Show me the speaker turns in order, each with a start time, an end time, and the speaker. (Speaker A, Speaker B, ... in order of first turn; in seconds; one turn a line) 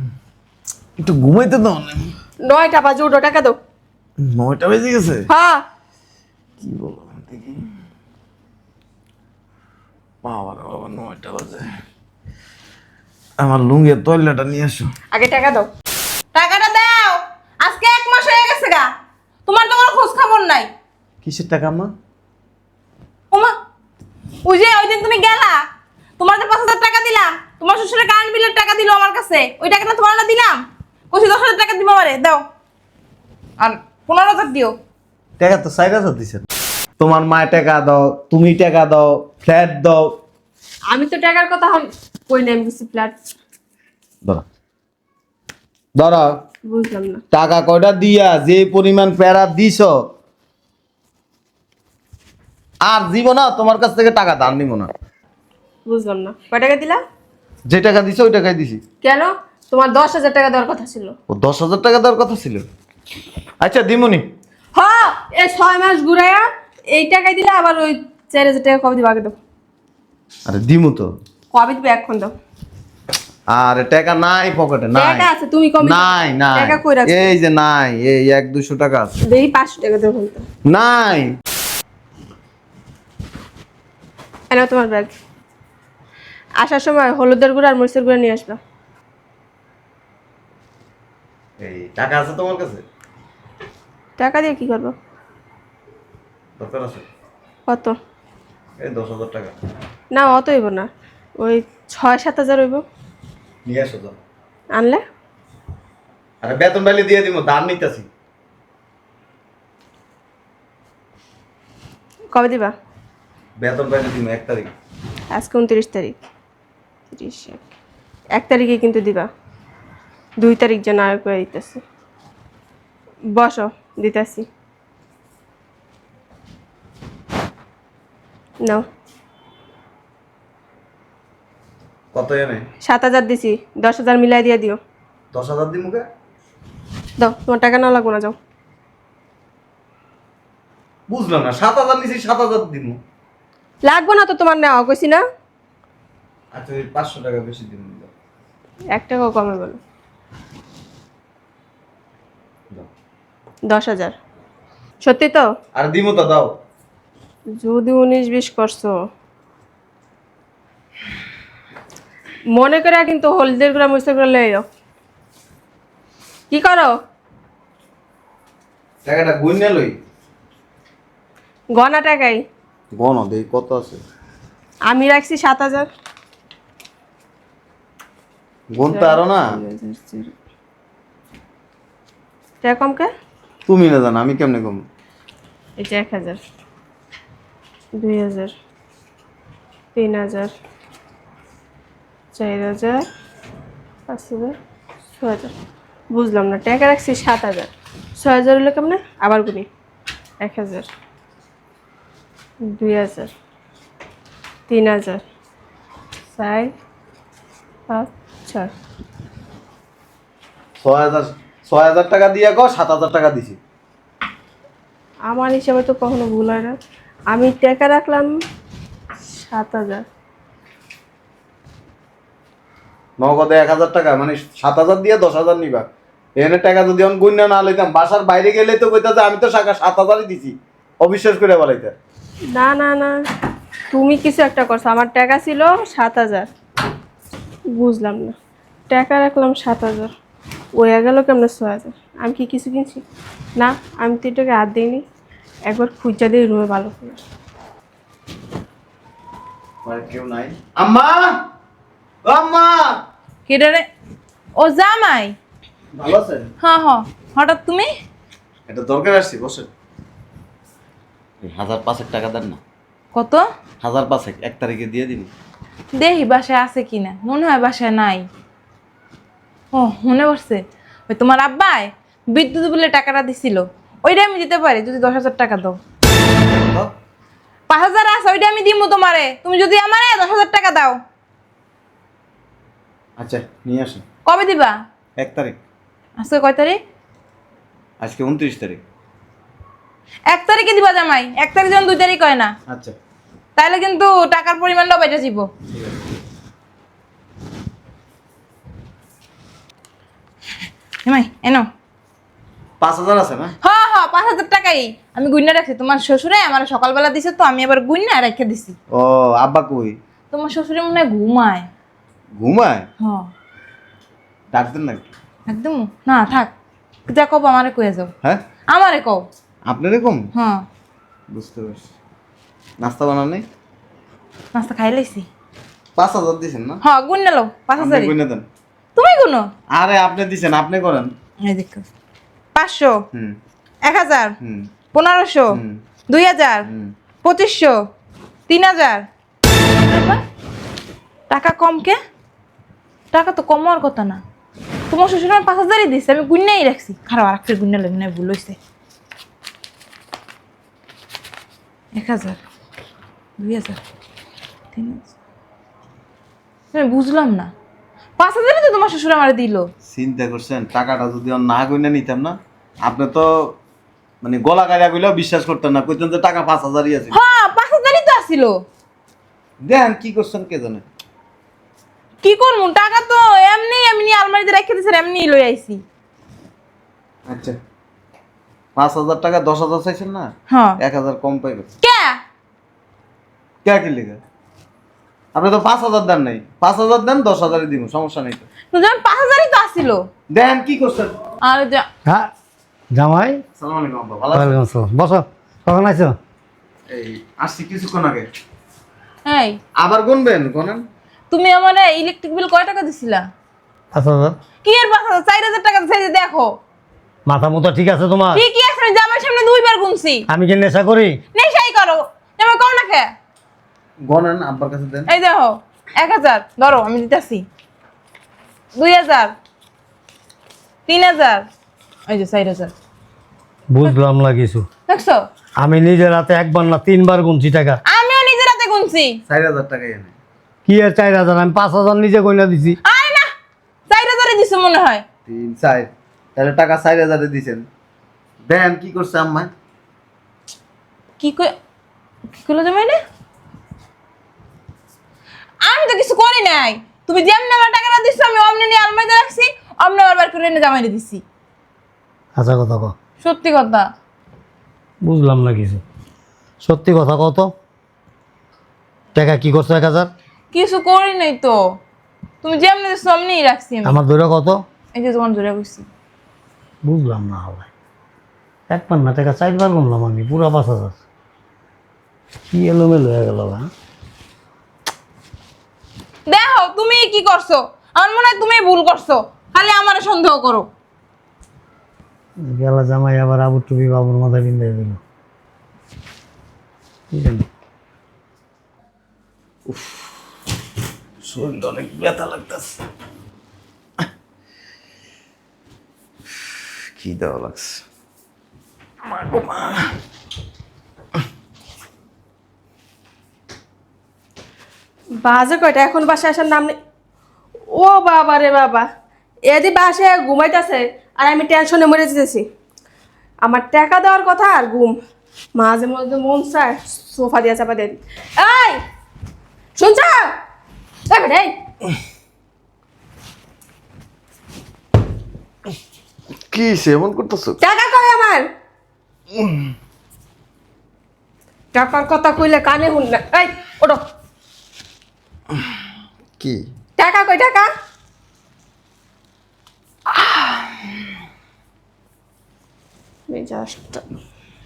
Speaker A: 1.0-2.1
Speaker B: 2.4-3.6
Speaker A: 4.2-5.3
Speaker B: 5.3-5.6
Speaker A: 6.6-7.6
Speaker A: 10.2-11.7
Speaker A: 13.4-14.9
Speaker B: 15.1-15.7
Speaker C: 16.4-18.9
Speaker C: 19.5-20.7
Speaker A: 21.2-21.9
Speaker C: 24.4-25.6
Speaker C: 26.2-32.4
Speaker C: 33.6-34.7
Speaker A: 35.4-36.4
Speaker A: 37.0-40.1
Speaker B: 40.9-43.2
Speaker A: 46.0-46.3
Speaker B: 46.7-47.2
Speaker A: 47.3-49.9
Speaker A: 52.9-54.9
Speaker B: 55.9-57.0
Speaker A: 57.7-58.8
Speaker B: 59.0-61.1
Speaker A: 61.3-62.6
Speaker A: 63.6-64.2
Speaker B: 64.8-69.4
Speaker A: 70.5-71.1
Speaker B: 71.5-72.3
Speaker A: 73.5-75.3
Speaker B: 75.0-77.3
Speaker A: 75.8-79.1
Speaker B: 79.3-80.4
Speaker A: 80.7-81.3
Speaker B: 84.5-85.1
Speaker B: 86.6-88.6
Speaker A: 91.6-92.8
Speaker B: 94.2-94.9
Speaker A: 96.6-97.0
Speaker B: 97.7-98.0
Speaker A: 98.8-99.5
Speaker B: 100.1-102.8
Speaker A: 103.7-104.2
Speaker B: 104.7-105.0
Speaker A: 106.4-108.1
Speaker B: 112.3-112.7
Speaker A: 113.6-114.7
Speaker B: 115.3-116.2
Speaker B: 117.1-117.7
Speaker B: 118.4-119.3
Speaker B: 120.4-121.8
Speaker B: 123.3-124.5
Speaker A: 132.1-132.7
Speaker B: 132.8-134.8
Speaker A: 135.3-136.1
Speaker B: 137.2-138.4
Speaker A: 141.1-143.0
Speaker B: 143.9-145.2
Speaker A: 146.5-148.1
Speaker B: 148.9-149.8
Speaker B: 153.7-154.1
Speaker B: 155.0-155.5
Speaker A: 155.8-156.5
Speaker B: 157.6-158.9
Speaker B: 162.5-164.6
Speaker B: 166.5-166.9
Speaker A: 169.1-169.9
Speaker B: 171.7-172.4
Speaker A: 172.9-174.0
Speaker B: 174.9-175.9
Speaker A: 178.7-179.4
Speaker B: 178.9-180.3
Speaker B: 182.6-183.1
Speaker A: 183.7-184.8
Speaker B: 185.8-186.4
Speaker B: 188.0-188.5
Speaker B: 189.9-190.5
Speaker B: 192.3-193.0
Speaker B: 194.1-194.6
Speaker B: 195.2-195.5
Speaker B: 196.1-199.7
Speaker B: 200.4-200.9
Speaker B: 202.7-203.3
Speaker B: 204.7-205.2
Speaker B: 206.4-206.7
Speaker B: 207.9-208.7
Speaker A: 210.8-213.6
Speaker B: 215.3-216.8
Speaker B: 217.3-218.3
Speaker B: 219.3-220.1
Speaker A: 223.2-225.8
Speaker A: 226.4-231.9
Speaker B: 232.5-233.2
Speaker B: 233.9-236.5
Speaker B: 237.8-238.3
Speaker B: 238.9-240.1
Speaker B: 240.8-243.0
Speaker B: 243.6-245.0
Speaker B: 245.7-247.2
Speaker A: 249.8-251.4
Speaker A: 252.2-253.0
Speaker C: 253.5-253.8
Speaker C: 254.6-255.3
Speaker A: 255.9-256.5
Speaker C: 256.6-257.9
Speaker A: 258.7-259.7
Speaker A: 261.4-262.6
Speaker C: 263.1-263.4
Speaker A: 263.8-265.3
Speaker C: 266.0-268.3
Speaker C: 269.7-275.8
Speaker A: 276.5-276.9
Speaker C: 277.7-281.0
Speaker A: 283.2-284.0
Speaker C: 284.3-284.8
Speaker A: 285.2-285.6
Speaker C: 286.2-286.8
Speaker A: 288.0-288.8
Speaker C: 290.3-292.5
Speaker A: 292.7-292.9
Speaker C: 293.6-295.5
Speaker C: 301.1-301.7
Speaker A: 302.8-303.5
Speaker C: 303.6-308.8
Speaker A: 308.9-310.0
Speaker C: 310.3-311.7
Speaker A: 312.4-312.8
Speaker C: 313.0-313.3
Speaker A: 314.5-315.1
Speaker C: 315.5-316.5
Speaker C: 317.1-318.1
Speaker C: 318.7-319.2
Speaker A: 319.7-320.2
Speaker C: 320.3-320.6
Speaker A: 321.3-321.8
Speaker A: 322.8-323.4
Speaker C: 324.5-325.3
Speaker A: 326.0-326.8
Speaker C: 326.8-328.1
Speaker A: 327.8-328.5
Speaker C: 329.0-329.5
Speaker A: 329.7-331.1
Speaker C: 331.4-331.8
Speaker C: 332.6-333.0
Speaker C: 333.9-334.4
Speaker A: 334.4-334.7
Speaker C: 334.9-335.6
Speaker A: 335.5-335.8
Speaker C: 336.1-336.7
Speaker A: 336.7-336.9
Speaker C: 337.2-337.8
Speaker C: 338.5-339.1
Speaker C: 339.9-340.2
Speaker C: 341.3-342.0
Speaker C: 343.1-344.2
Speaker C: 344.9-348.6
Speaker C: 351.9-352.4
Speaker C: 353.4-353.8
Speaker C: 354.7-355.1
Speaker C: 356.7-357.5
Speaker C: 358.2-359.7
Speaker A: 359.9-363.6
Speaker A: 364.2-367.2
Speaker C: 367.1-368.7
Speaker A: 369.6-370.8
Speaker C: 372.2-375.8
Speaker A: 377.3-377.6
Speaker A: 378.8-381.7
Speaker C: 380.5-380.8
Speaker C: 381.8-382.2
Speaker A: 383.6-384.2
Speaker A: 385.3-388.4
Speaker C: 388.7-390.1
Speaker A: 390.3-391.1
Speaker C: 391.4-391.8
Speaker D: 392.9-393.4
Speaker A: 393.6-394.6
Speaker D: 394.3-396.2
Speaker A: 396.9-398.3
Speaker C: 399.3-399.6
Speaker A: 399.8-400.9
Speaker C: 401.3-403.3
Speaker D: 403.9-404.4
Speaker C: 404.6-406.6
Speaker D: 407.3-408.4
Speaker C: 408.3-410.3
Speaker D: 410.3-411.2
Speaker C: 411.3-413.1
Speaker A: 414.1-415.1
Speaker C: 415.1-417.5
Speaker C: 418.8-419.4
Speaker C: 420.9-421.5
Speaker C: 422.1-422.7
Speaker D: 423.7-424.7
Speaker C: 424.9-425.2
Speaker D: 425.6-427.8
Speaker C: 427.9-429.2
Speaker A: 429.3-430.1
Speaker D: 430.7-432.8
Speaker C: 432.8-433.3
Speaker C: 433.9-435.0
Speaker A: 435.3-437.6
Speaker A: 438.5-439.5
Speaker C: 441.2-441.5
Speaker C: 442.4-443.0
Speaker C: 445.6-451.2
Speaker D: 452.4-452.9
Speaker C: 453.2-453.9
Speaker D: 455.0-455.8
Speaker D: 456.6-457.5
Speaker D: 459.1-460.1
Speaker C: 460.5-461.8
Speaker C: 462.4-464.0
Speaker D: 463.9-464.6
Speaker C: 464.9-465.9
Speaker D: 466.8-467.7
Speaker D: 468.7-471.0
Speaker D: 472.5-473.7
Speaker C: 476.3-480.7
Speaker D: 482.4-485.0
Speaker D: 487.1-487.5
Speaker A: 489.7-490.1
Speaker A: 491.2-492.8
Speaker A: 497.0-497.8
Speaker A: 499.0-499.9
Speaker B: 505.2-506.7
Speaker B: 507.7-508.9
Speaker B: 509.5-512.4
Speaker B: 513.4-515.0
Speaker B: 515.6-518.8
Speaker B: 519.8-520.3
Speaker B: 521.1-521.5
Speaker A: 526.5-527.6
Speaker B: 527.6-528.5
Speaker A: 529.4-529.7
Speaker B: 531.7-534.0
Speaker A: 536.4-536.6
Speaker B: 537.0-537.7
Speaker B: 543.3-544.0